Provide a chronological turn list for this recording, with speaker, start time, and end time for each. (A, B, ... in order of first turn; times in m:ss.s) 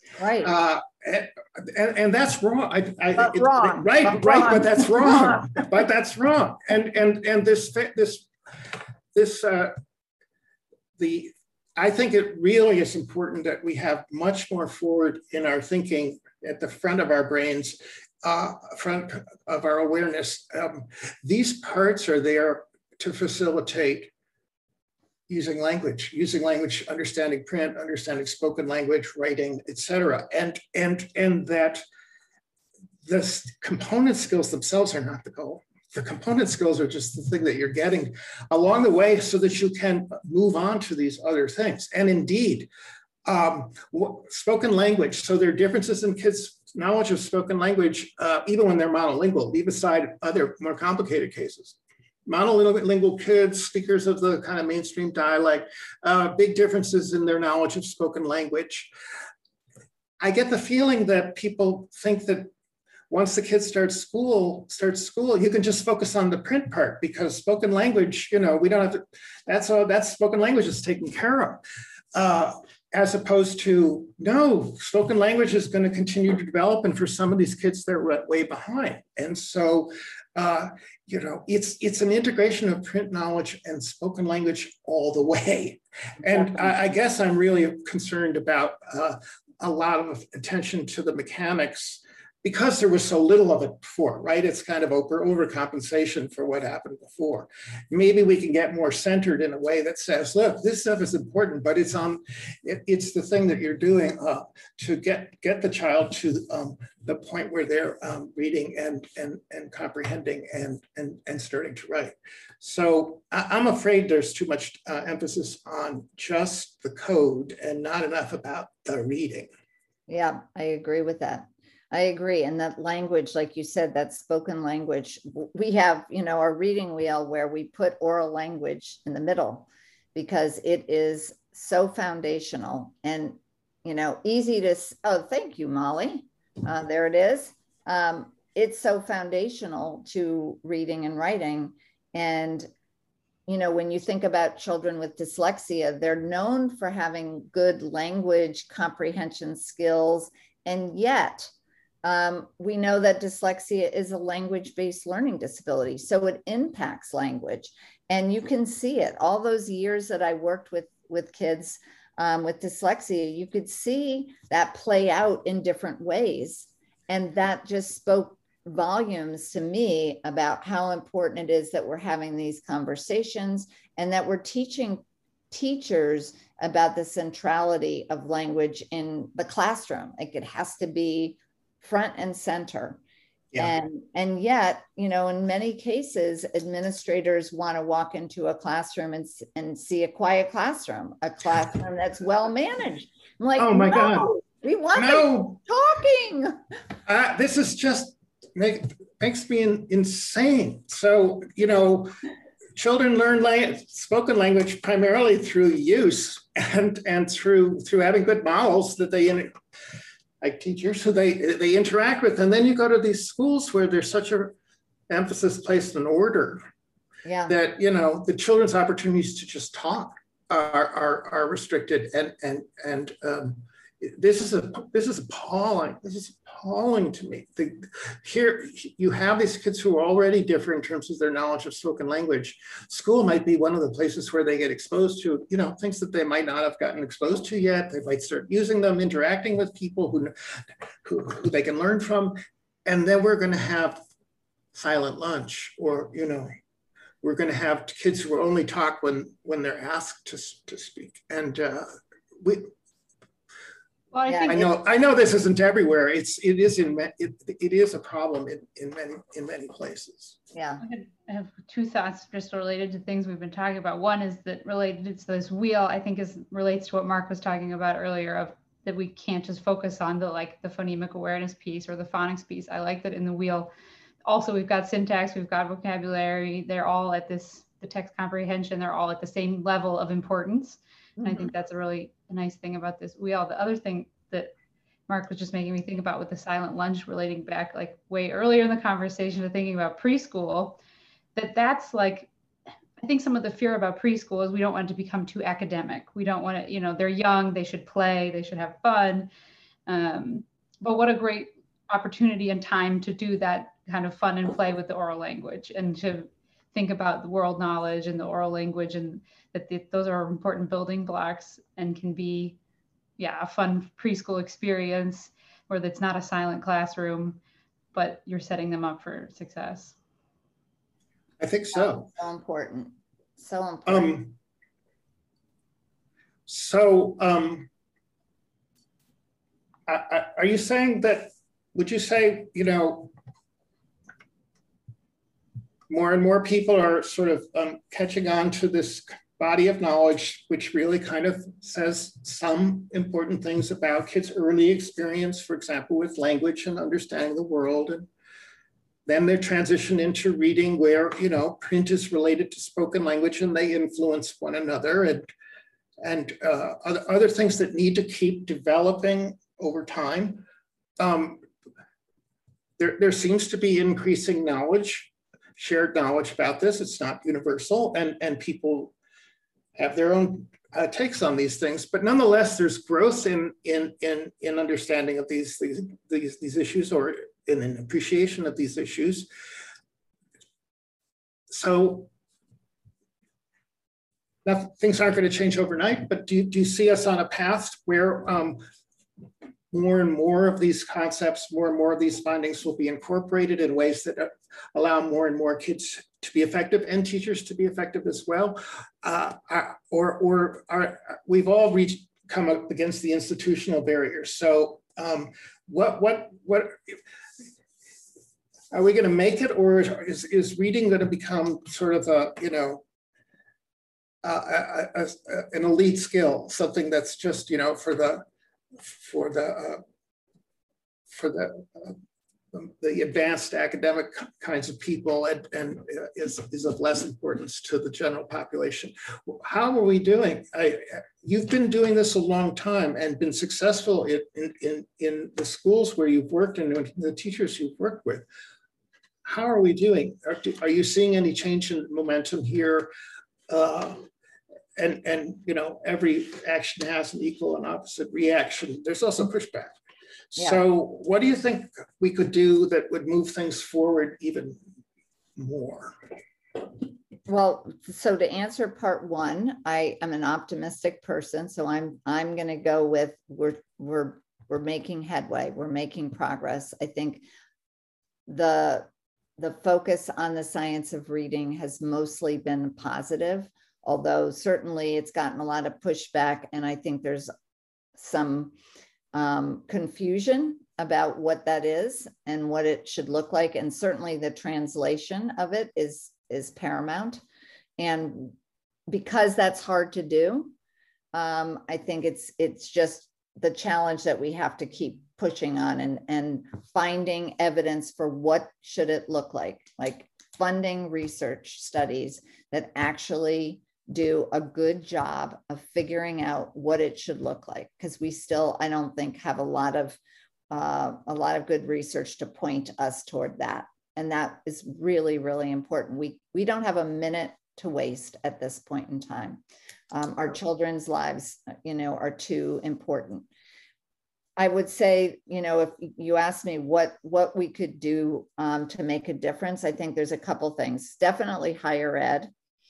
0:00.2-0:00.5 A
0:00.4-0:09.7 B
0:03.2-0:05.6 A
0:11.0-0:24.1 B
0:25.3-0:31.8 B
0:33.0-0:42.7 B
0:43.2-0:58.9 B
1:00.2-1:02.5 B
1:03.1-1:11.6 B
1:12.1-1:59.5 B
1:26.2-1:26.7 A
2:00.1-2:22.7 A
2:23.5-2:31.5 A
2:32.0-3:03.0 A
3:03.6-3:16.6 A
3:13.6-3:14.3 B
3:14.9-3:15.6 B
3:17.0-3:22.1 B
3:22.8-3:29.5 B
3:30.4-3:34.5 B
3:35.1-3:36.6 B
3:37.2-3:37.5 A
3:37.5-4:00.3 B
4:01.0-4:04.0 B
4:04.7-4:06.5 B
4:07.2-4:12.7 B
4:14.1-4:14.6 C
4:14.3-4:14.7 A
4:14.5-4:20.4 B
4:20.5-4:20.8 A
4:20.8-4:33.7 C
4:34.2-4:44.5 C
4:41.2-4:41.5 A
4:45.1-4:50.8 C
4:51.3-4:52.3 C
4:53.0-4:59.3 C
4:59.9-5:12.6 C
5:13.2-5:17.4 C
5:17.9-5:20.0 C
5:21.4-5:22.1 B
5:21.7-5:24.2 A
5:23.8-5:24.3 B
5:26.5-5:27.7 B
5:29.9-5:33.1 B
5:35.9-5:48.1 B
5:49.0-5:55.3 B
5:56.0-6:00.4 B
6:01.0-6:01.4 B
6:02.8-6:08.9 B
6:09.8-6:19.3 B
6:21.5-6:22.1 B
6:24.4-6:28.6 B
6:29.7-6:47.0 B
6:48.7-6:52.8 B
6:54.2-6:58.2 B
6:58.8-6:59.8 B
7:01.1-7:02.0 B
7:02.5-7:18.2 B
7:19.2-7:22.9 B
7:23.5-7:24.1 B
7:24.8-7:29.7 B
7:30.3-7:34.6 B
7:30.4-7:30.6 A
7:35.4-7:36.0 B
7:37.3-7:47.2 A
7:48.3-7:57.3 A
7:58.0-7:58.5 A
7:59.1-8:07.2 A
8:07.8-8:08.3 A
8:08.9-8:10.5 A
8:11.1-8:30.0 A
8:30.5-8:39.4 A
8:39.9-8:43.3 A
8:44.4-8:52.3 A